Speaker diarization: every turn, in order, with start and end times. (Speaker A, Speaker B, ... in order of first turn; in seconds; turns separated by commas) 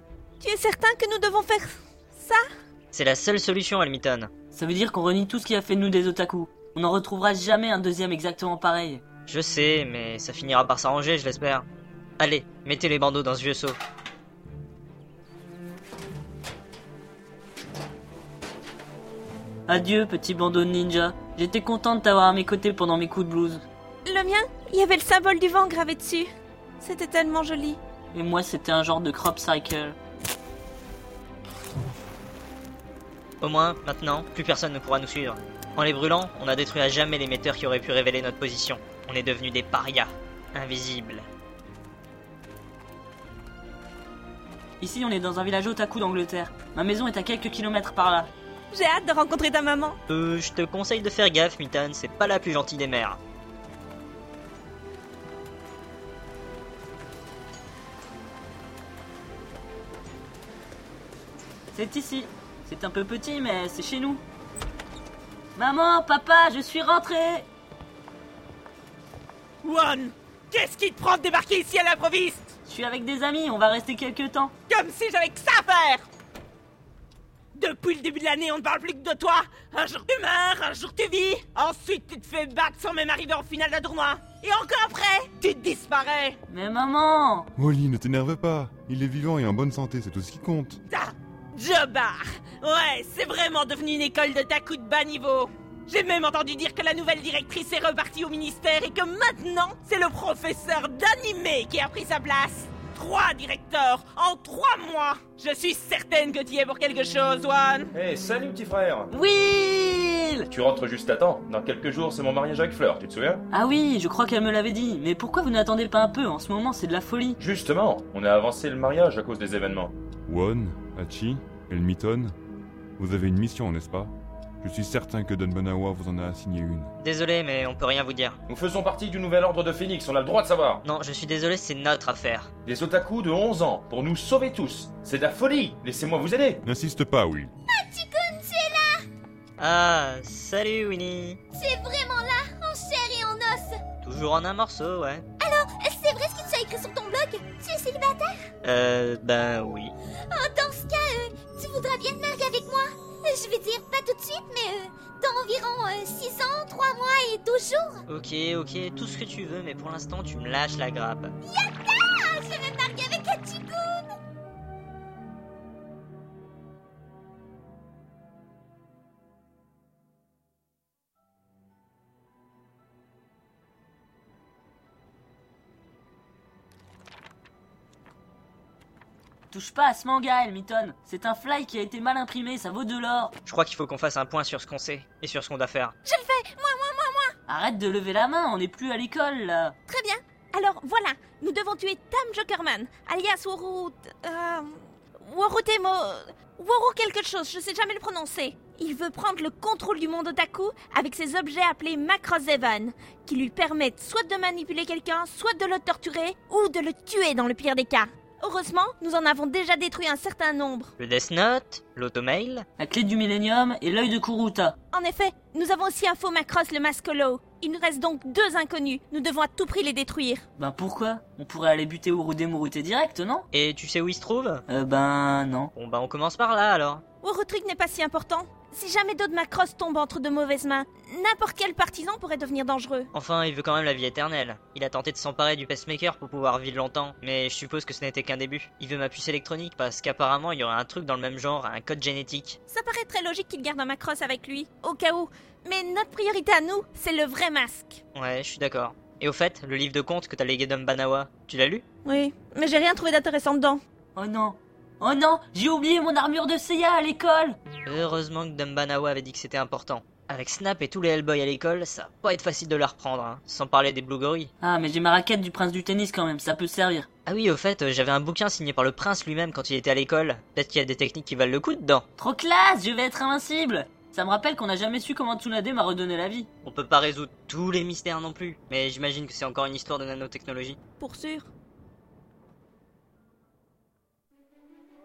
Speaker A: 0.4-2.4, Speaker B: 2.9-4.3, Speaker C: 4.5-9.0, Speaker B: 9.3-11.7, Speaker B: 12.2-13.8, Speaker C: 19.7-23.6, Speaker A: 24.1-26.3, Speaker A: 26.8-27.8, Speaker C: 28.1-29.9, Speaker B: 33.4-41.2, Speaker C: 44.8-48.3, Speaker A: 48.7-50.0, Speaker B: 50.1-53.2, Speaker C: 61.7-64.2, Speaker C: 65.5-67.5, Speaker D: 69.6-72.5, Speaker C: 72.7-74.5, Speaker D: 74.7-76.1, Speaker D: 77.5-86.4, Speaker C: 86.5-87.5, Speaker E: 87.6-90.8, Speaker D: 90.9-107.9, Speaker F: 107.9-109.1, Speaker C: 109.1-110.5, Speaker F: 110.5-113.4, Speaker C: 113.5-117.4, Speaker F: 117.4-119.9, Speaker E: 120.3-122.3, Speaker E: 123.0-126.9, Speaker B: 127.0-128.4, Speaker F: 128.5-130.8, Speaker B: 130.8-132.5, Speaker F: 132.7-136.6, Speaker E: 136.6-137.5, Speaker G: 137.7-139.0, Speaker B: 139.6-141.4, Speaker G: 141.5-143.8, Speaker B: 144.0-145.2, Speaker G: 145.4-148.4, Speaker B: 148.6-149.9, Speaker G: 150.3-158.0, Speaker B: 158.1-161.3, Speaker G: 161.5-164.1, Speaker C: 179.5-183.3, Speaker B: 183.4-185.9, Speaker A: 186.0-187.3, Speaker C: 187.5-189.8, Speaker A: 189.9-210.9, Speaker B: 211.0-212.7, Speaker C: 212.8-214.7, Speaker A: 214.9-220.4, Speaker C: 220.6-223.5, Speaker B: 223.5-224.6, Speaker C: 224.7-225.7, Speaker B: 225.7-227.0, Speaker A: 227.2-233.1, Speaker B: 233.1-242.6, Speaker A: 242.7-248.0, Speaker B: 248.1-251.8, Speaker A: 252.0-253.8, Speaker C: 254.2-257.6, Speaker B: 257.9-264.5, Speaker C: 264.6-267.1, Speaker B: 267.2-272.1, Speaker C: 272.2-276.5, Speaker B: 276.6-280.8, Speaker A: 281.0-281.5